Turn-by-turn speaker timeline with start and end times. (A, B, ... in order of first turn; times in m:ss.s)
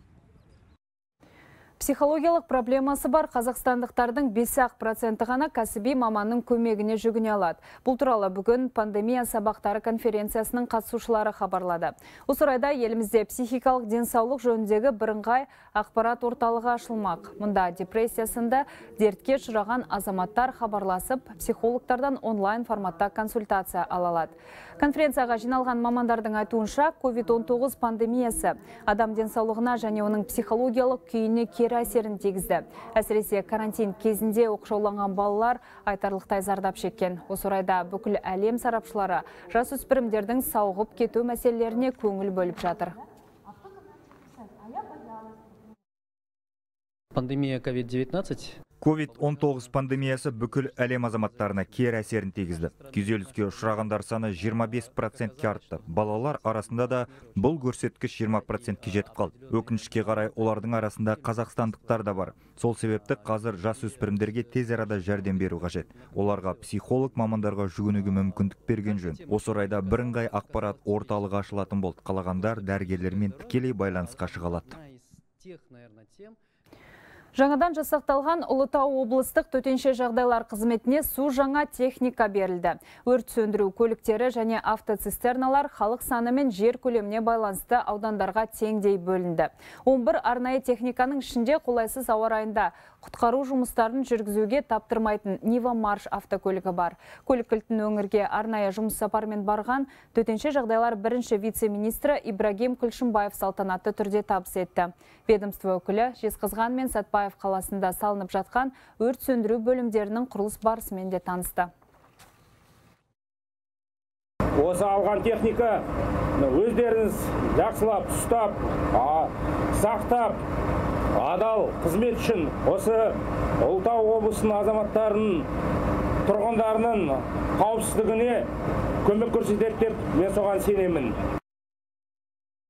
0:01.8-0:43.0 A
0:47.1-0:48.6 B
0:48.8-1:14.8 C
1:15.4-1:16.4 B
1:17.3-1:51.7 A
1:54.6-1:55.8 D
1:56.4-2:00.4 D
2:01.2-2:05.4 D
2:06.3-2:08.4 D
2:09.0-2:11.1 D